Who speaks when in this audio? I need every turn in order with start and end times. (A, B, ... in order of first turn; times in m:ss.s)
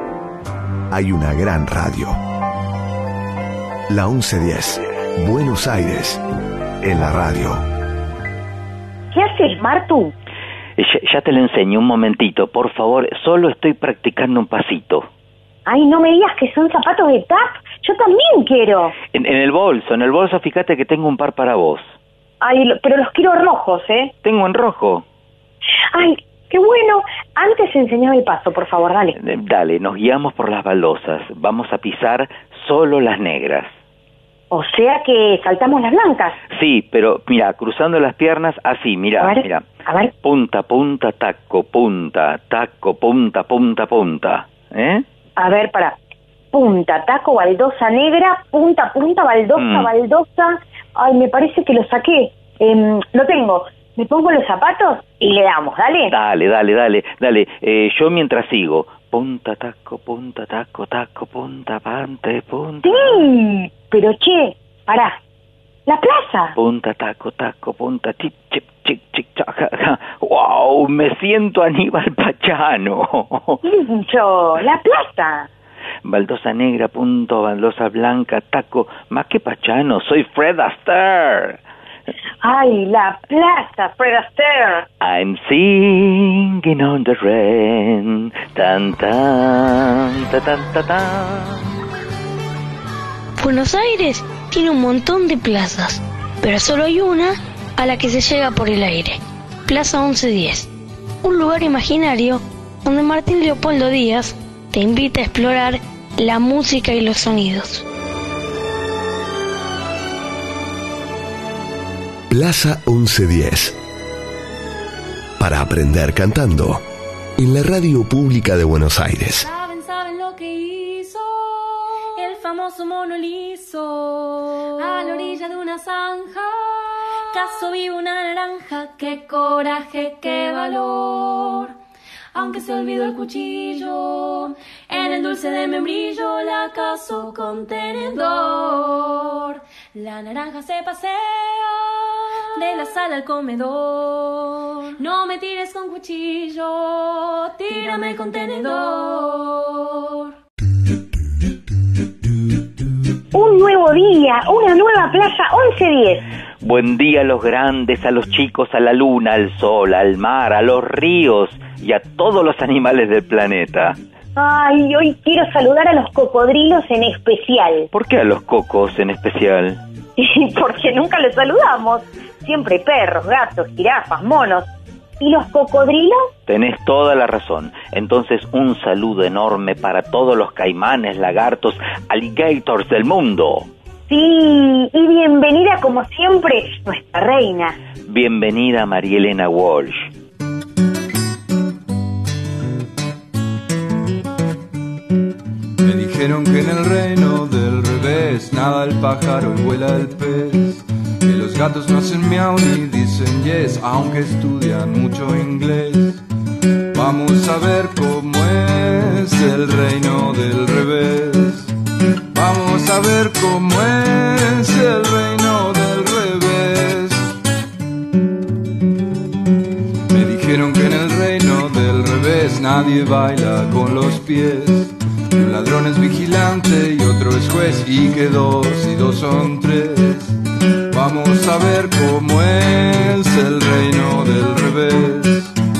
0:00.9-0:02.2 A
0:03.9-0:06.2 A
0:06.8-0:07.6 A
0:09.1-0:10.1 B
0:10.8-0:15.1 C
0:15.7-0:19.0 B
0:19.1-0:21.9 C
0:22.4-0:24.1 B
0:24.2-0:25.0 C
0:25.9-0:29.2 B
0:29.2-0:33.7 C
0:34.5-0:36.4 B
0:36.5-0:39.6 C
0:39.2-0:40.1 B
0:40.2-0:45.0 C
0:45.4-0:46.0 B
0:46.5-0:56.2 B
0:49.6-0:49.9 C
0:56.1-1:03.2 C
1:02.8-1:05.2 B
1:05.9-1:06.6 B
1:06.6-1:13.6 C
1:13.6-1:15.5 B
1:16.0-1:21.6 C
1:22.4-1:24.9 B
1:25.0-1:31.7 C
1:33.4-1:40.7 D
1:41.2-1:47.8 D
1:52.3-1:53.8 A
1:55.4-1:56.8 A
1:57.4-1:59.5 A
1:59.4-2:11.7 E
2:12.3-2:30.3 E
2:33.3-2:36.2 B
2:36.6-2:44.0 C
2:44.4-2:47.9 B
2:47.9-2:49.8 C
2:50.2-2:54.7 B
2:55.2-2:56.3 B
2:56.5-3:03.7 C
3:04.1-3:07.8 B
3:08.1-3:10.1 C
3:15.8-3:26.2 F
3:26.9-3:31.7 F
3:32.3-3:37.3 F
3:40.1-3:50.4 F
3:50.9-3:55.5 F